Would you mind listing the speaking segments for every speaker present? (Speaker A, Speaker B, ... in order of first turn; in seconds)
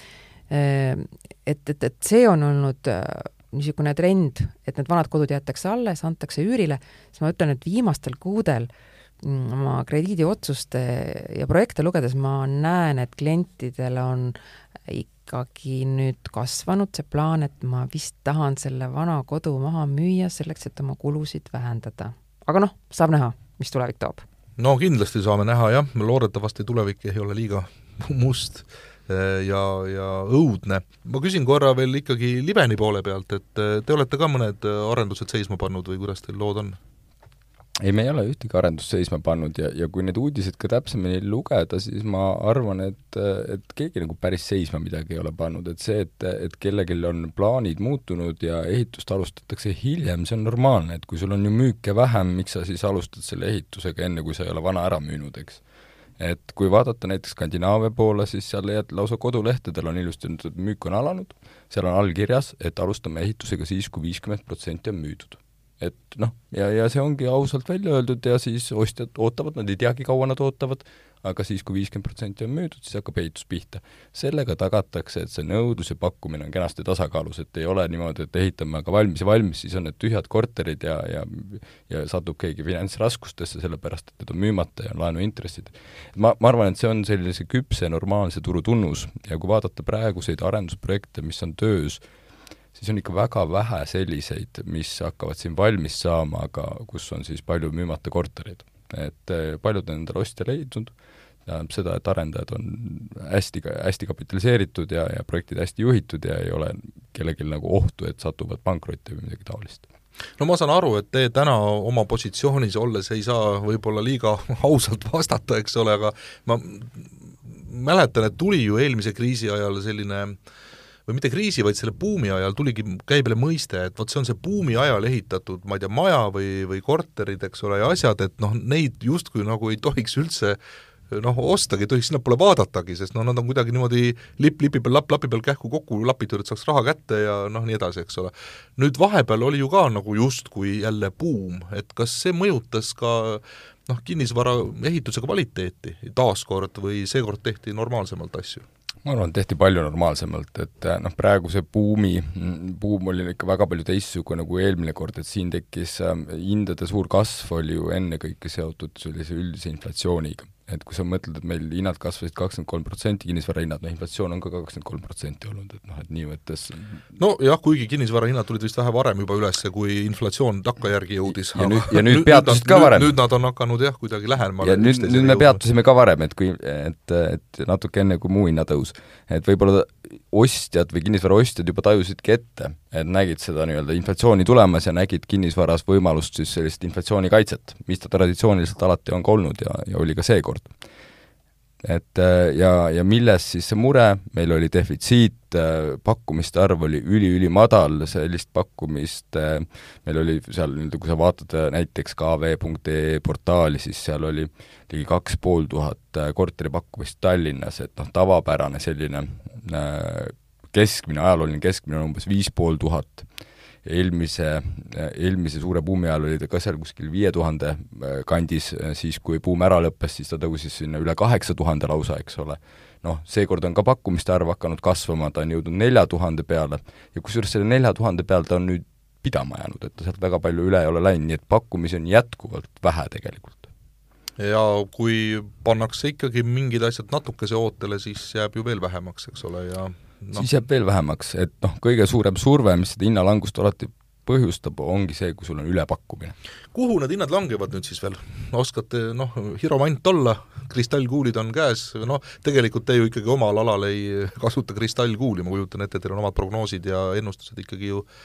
Speaker A: 0.5-8.7, 9.2-14.4, 14.9-24.2
Speaker B: 24.6-36.8, 110.4-120.4, 121.1-130.6, 131.1-148.7, 167.2-175.6, 234.4-240.5, 246.7-258.1
Speaker C: 37.8-55.6, 56.2-92.0, 92.7-100.9, 101.5-109.9, 149.0-167.0, 171.5-173.1, 174.6-190.7, 191.8-213.3, 213.8-233.7, 240.3-246.3